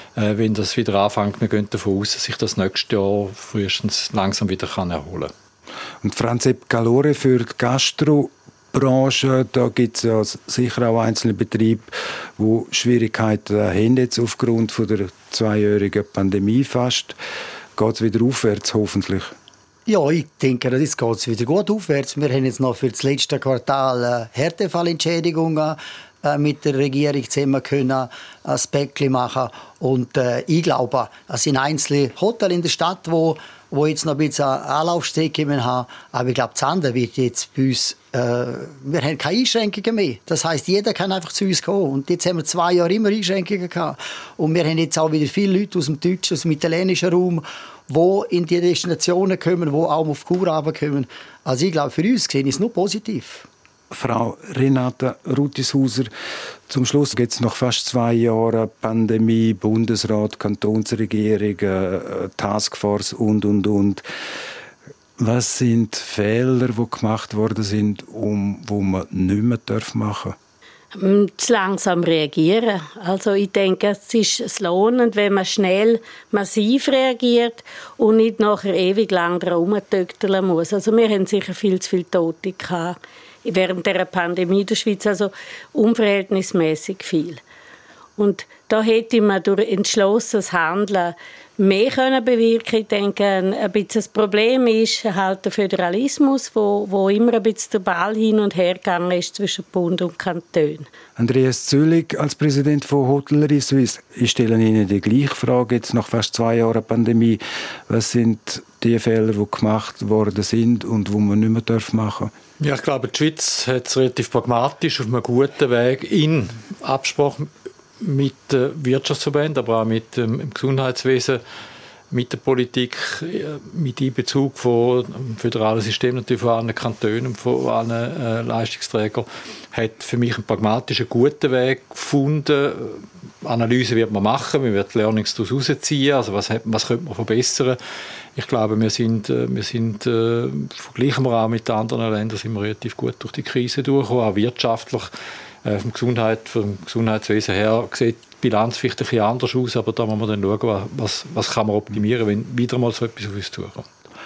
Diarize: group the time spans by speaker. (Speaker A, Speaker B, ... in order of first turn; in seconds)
Speaker A: 0.1-5.3, 112.6-121.4, 122.1-137.8, 138.3-145.1, 145.6-153.9
Speaker B: 6.0-17.2, 17.8-19.3, 53.9-56.1, 56.7-64.0, 65.2-70.3, 101.2-112.3
Speaker C: 19.9-53.5
Speaker D: 70.9-87.4, 88.2-100.9